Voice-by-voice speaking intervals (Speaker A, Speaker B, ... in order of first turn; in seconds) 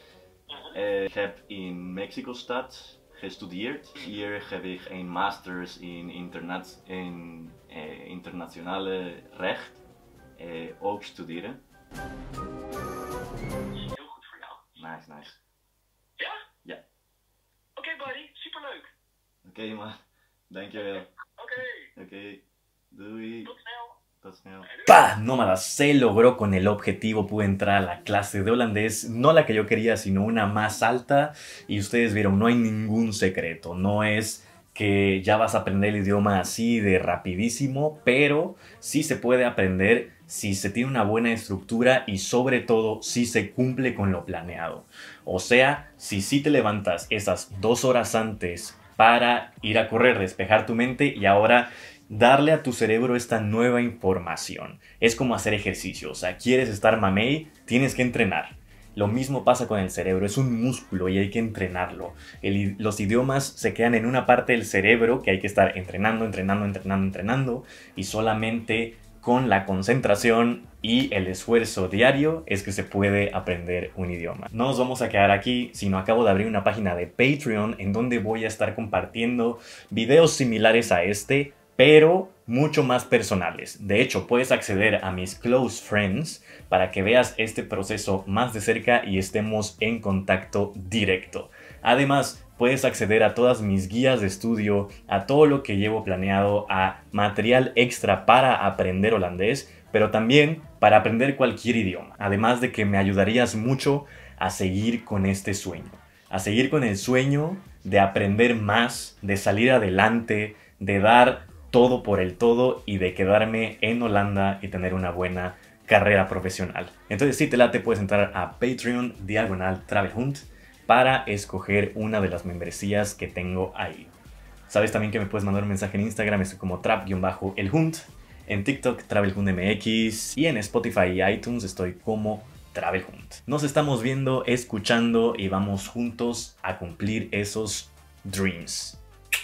Speaker A: 0.5-0.8, 13.9-14.8, 17.8-18.9, 20.8-21.8, 23.4-23.9, 24.6-25.0
Speaker B: 0.8-1.5, 3.2-6.5, 7.6-8.4, 10.4-11.6, 14.8-15.3, 19.5-21.1, 22.0-22.4, 22.9-23.5, 24.2-24.7
Speaker C: 1.0-9.8, 10.7-11.0, 24.9-124.1, 124.7-139.0